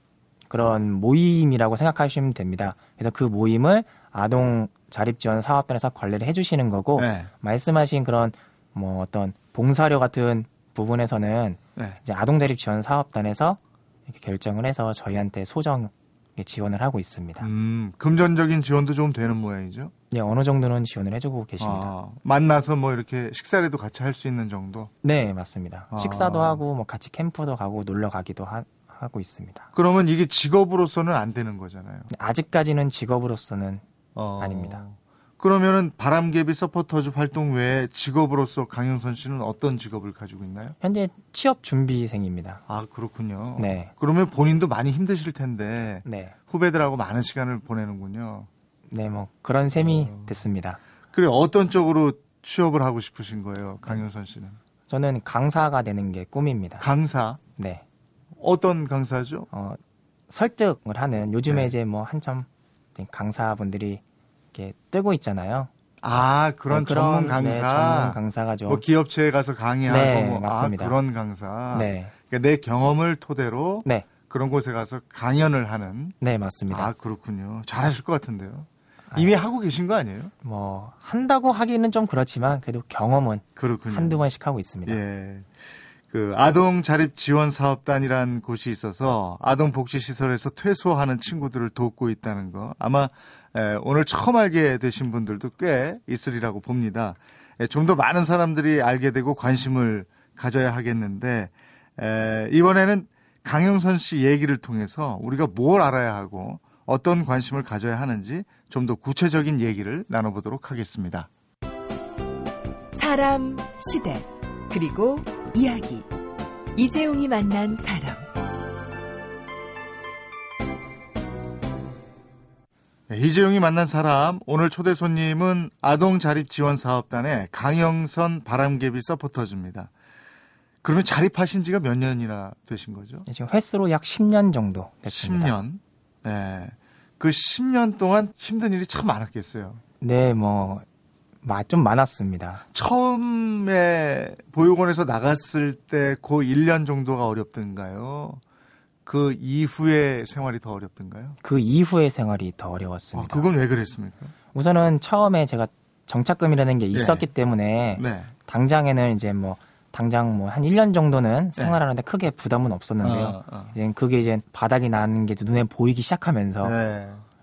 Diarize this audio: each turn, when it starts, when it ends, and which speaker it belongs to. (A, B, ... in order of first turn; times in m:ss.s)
0:00.5-0:17.5 A
0:07.0-0:07.3 B
0:17.4-0:19.9 B
0:20.1-0:21.9 A
0:21.6-0:24.9 B
0:25.0-0:29.7 A
0:25.9-0:26.6 B
0:29.7-0:32.1 B
0:32.1-0:33.8 A
0:34.2-0:40.8 B
0:34.4-0:34.8 A
0:40.8-0:42.6 A
0:42.7-0:48.5 B
0:43.6-0:43.9 A
0:46.0-0:46.4 A
0:48.9-0:50.8 A
0:49.8-0:50.4 B
0:51.1-0:54.6 B
0:54.9-0:56.9 A
0:56.8-0:57.4 B
0:57.6-0:57.8 A
0:58.4-0:59.5 B
0:59.5-1:04.0 A
1:01.5-1:01.7 B
1:04.5-1:05.7 A
1:06.0-1:16.2 B
1:06.7-1:08.8 A
1:09.9-1:11.0 A
1:11.7-1:12.1 A
1:16.2-1:16.9 A
1:16.7-1:20.3 B
1:20.4-1:25.0 A
1:23.6-1:24.2 B
1:24.9-1:25.6 B
1:26.1-1:51.3 B
1:52.9-1:56.1 C
1:56.8-1:58.3 C
2:03.1-2:09.9 B
2:10.8-2:13.3 B
2:13.3-2:15.6 A
2:15.1-2:19.8 B
2:20.0-2:20.8 A
2:21.4-2:22.6 A
2:22.7-2:28.4 B
2:29.1-2:31.4 B
2:31.4-2:33.5 A
2:33.1-2:34.3 B
2:34.5-2:46.8 A
2:36.9-2:37.3 B
2:38.0-2:38.3 B
2:43.0-2:43.8 B
2:46.6-2:47.2 B